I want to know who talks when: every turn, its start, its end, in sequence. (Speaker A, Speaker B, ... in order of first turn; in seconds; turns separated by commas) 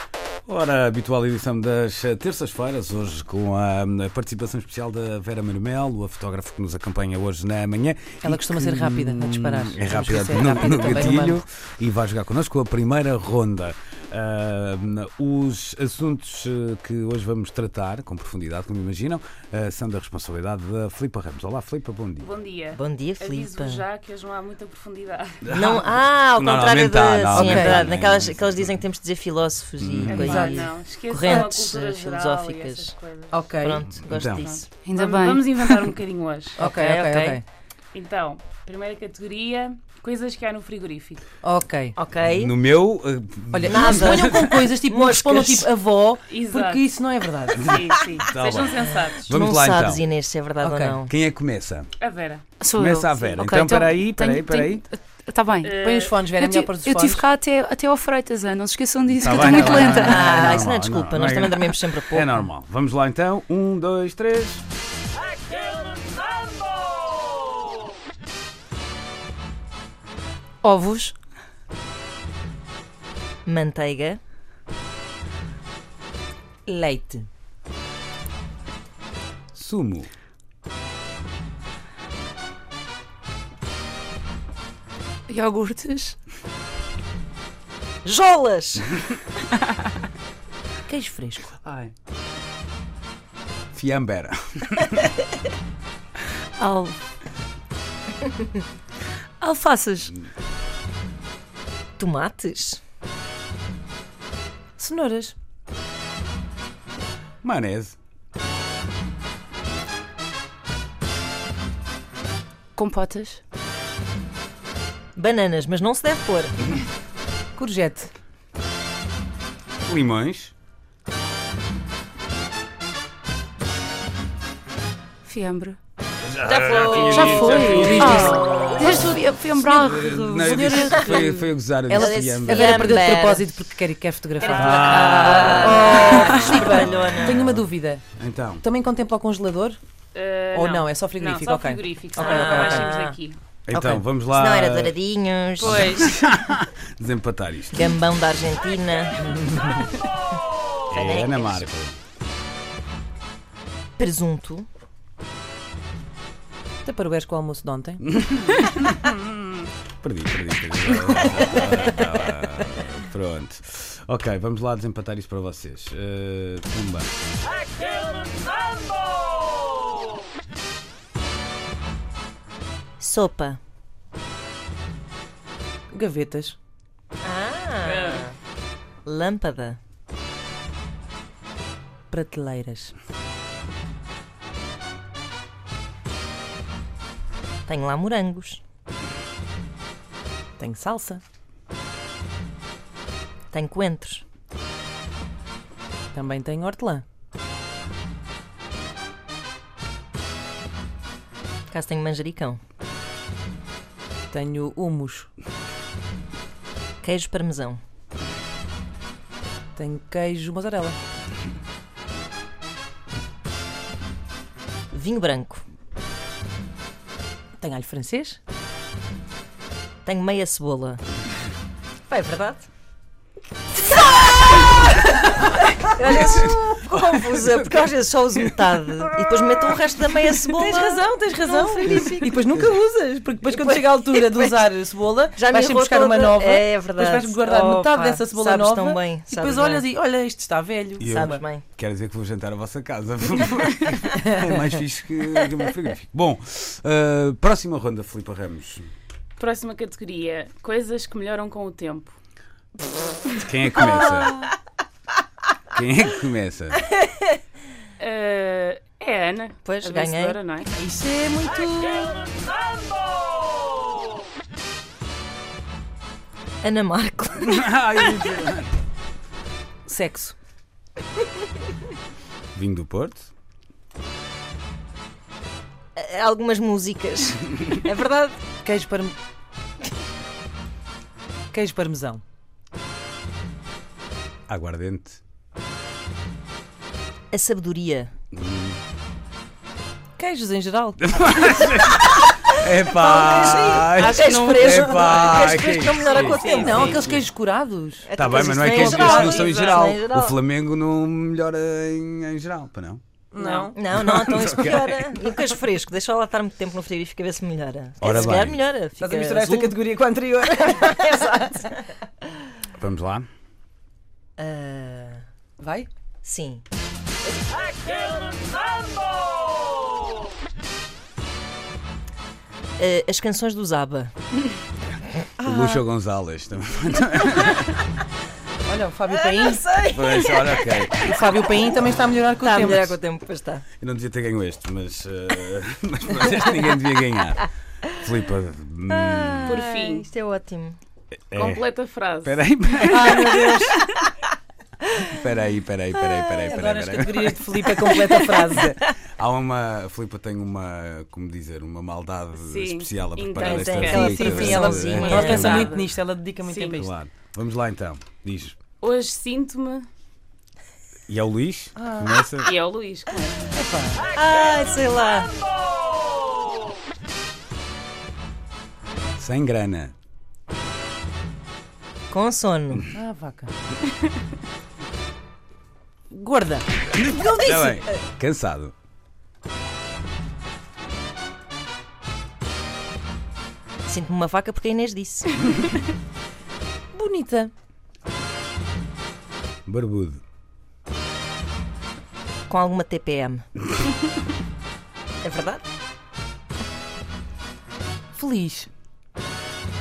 Speaker A: 0.5-22.3, Speaker B: 8.2-11.4, Speaker C: 22.2-25.4, Speaker D: 22.7-23.9, Speaker A: 25.4-28.8, Speaker D: 25.5-32.9, Speaker B: 27.3-27.9, Speaker A: 29.8-30.3, Speaker C: 30.0-33.9, Speaker B: 30.1-30.7, Speaker B: 33.3-33.8, Speaker D: 33.6-34.7, Speaker A: 34.1-34.5, Speaker C: 34.4-36.6, Speaker E: 34.7-35.9, Speaker B: 36.6-37.4, Speaker D: 36.6-37.4, Speaker C: 37.9-41.2, Speaker B: 41.4-42.0, Speaker D: 42.0-42.5, Speaker A: 42.2-44.6, Speaker B: 43.5-47.7, Speaker D: 43.7-45.7, Speaker C: 46.3-46.8, Speaker A: 47.5-50.1, Speaker C: 47.6-49.3, Speaker D: 49.2-51.1, Speaker B: 50.6-51.0, Speaker A: 51.1-51.9, Speaker C: 52.0-52.5, Speaker E: 52.6-55.7, Speaker A: 52.8-54.8, Speaker C: 55.6-56.2, Speaker B: 55.8-57.2, Speaker E: 56.4-60.4, Speaker A: 59.2-64.6, Speaker D: 59.4-62.4, Speaker E: 70.6-71.2, Speaker D: 73.5-74.2, Speaker B: 76.7-77.3, Speaker A: 79.5-80.1, Speaker E: 85.3-86.2, Speaker D: 88.0-88.9, Speaker B: 90.9-91.5, Speaker A: 91.6-91.9, Speaker A: 93.7-95.1, Speaker E: 96.6-97.0, Speaker E: 99.4-100.1, Speaker D: 102.0-102.8, Speaker B: 104.8-105.3, Speaker A: 107.4-108.0, Speaker E: 112.8-113.4, Speaker D: 115.2-116.7, Speaker B: 117.6-118.1, Speaker A: 119.9-120.5, Speaker E: 125.2-125.8, Speaker A: 126.2-128.3, Speaker D: 126.5-128.8, Speaker E: 127.1-131.0, Speaker B: 127.2-128.5, Speaker A: 129.6-133.0, Speaker B: 130.4-138.0, Speaker D: 131.9-133.5, Speaker D: 134.4-137.5, Speaker A: 134.4-137.7, Speaker A: 138.2-138.6, Speaker B: 138.6-139.8, Speaker C: 140.1-143.4, Speaker B: 140.5-142.9, Speaker D: 142.2-143.2, Speaker A: 143.7-145.0, Speaker B: 143.7-144.0, Speaker D: 144.3-146.0, Speaker A: 145.6-147.9, Speaker C: 145.6-146.2, Speaker D: 147.7-149.8, Speaker A: 150.9-152.0, Speaker D: 150.9-151.7, Speaker D: 154.0-154.7, Speaker B: 156.8-158.0, Speaker A: 158.1-167.1, Speaker D: 173.0-173.6, Speaker B: 175.9-176.6, Speaker D: 177.2-178.3, Speaker C: 177.8-178.3, Speaker D: 179.1-179.8, Speaker B: 182.1-182.9, Speaker D: 187.7-188.6, Speaker B: 190.6-191.2, Speaker D: 193.5-194.2, Speaker B: 196.1-197.0, Speaker D: 201.7-202.6, Speaker B: 204.3-205.3, Speaker D: 207.0-207.8, Speaker B: 209.8-211.0, Speaker D: 214.9-215.6, Speaker B: 217.6-218.4, Speaker D: 220.1-221.0, Speaker D: 222.1-222.7, Speaker D: 223.9-232.4, Speaker A: 226.2-227.9, Speaker B: 230.6-241.4, Speaker A: 231.9-232.1, Speaker D: 233.5-234.6, Speaker D: 235.4-239.8, Speaker A: 241.0-248.9, Speaker D: 241.0-241.6, Speaker C: 249.4-252.2, Speaker A: 253.4-254.4, Speaker A: 255.7-256.8, Speaker C: 258.0-260.7, Speaker D: 259.6-260.4, Speaker B: 260.7-262.2, Speaker D: 266.6-268.0, Speaker A: 267.4-268.7, Speaker B: 269.9-270.4, Speaker A: 272.5-273.3, Speaker D: 276.0-278.4, Speaker B: 278.6-279.1, Speaker B: 281.5-282.2, Speaker A: 284.5-285.2, Speaker D: 287.3-288.1, Speaker A: 288.3-288.8, Speaker B: 290.2-291.0, Speaker A: 291.0-297.0, Speaker D: 292.9-297.2, Speaker B: 293.5-293.8, Speaker C: 293.9-295.3, Speaker C: 296.0-297.2, Speaker B: 296.4-298.1, Speaker D: 298.1-300.4, Speaker A: 298.1-303.0, Speaker C: 298.8-299.9, Speaker B: 303.3-303.8, Speaker C: 303.4-303.7, Speaker D: 303.7-309.8, Speaker A: 303.9-305.1, Speaker A: 308.0-308.6, Speaker B: 309.0-311.8, Speaker D: 310.7-311.3, Speaker A: 312.7-313.3, Speaker D: 314.4-315.2, Speaker B: 315.6-315.9, Speaker D: 316.2-316.6, Speaker D: 322.8-324.1, Speaker B: 325.4-325.8, Speaker A: 325.4-327.8, Speaker B: 328.6-329.6, Speaker D: 329.2-330.9, Speaker A: 329.9-331.1, Speaker B: 331.0-332.9, Speaker D: 332.4-333.6, Speaker A: 333.8-339.6, Speaker D: 338.9-340.8, Speaker C: 339.5-340.1, Speaker A: 341.3-341.6, Speaker C: 341.3-342.4, Speaker A: 342.2-343.5, Speaker B: 342.9-343.7, Speaker A: 345.1-347.4, Speaker B: 346.5-348.8, Speaker D: 347.9-348.9, Speaker A: 349.1-355.8, Speaker C: 352.4-355.8, Speaker D: 353.3-355.7, Speaker B: 353.9-356.9, Speaker C: 356.4-356.8, Speaker A: 356.8-358.6, Speaker C: 358.8-359.9, Speaker A: 361.1-362.5, Speaker B: 361.8-362.2, Speaker C: 362.4-363.6, Speaker B: 363.5-364.1, Speaker D: 364.1-365.3, Speaker A: 369.2-369.9, Speaker D: 372.1-372.9, Speaker B: 372.9-373.5, Speaker B: 376.1-378.0, Speaker A: 376.9-378.7, Speaker D: 383.9-385.5, Speaker B: 386.9-387.5, Speaker A: 389.7-390.2, Speaker D: 392.5-393.4, Speaker D: 395.2-395.6, Speaker B: 398.1-398.7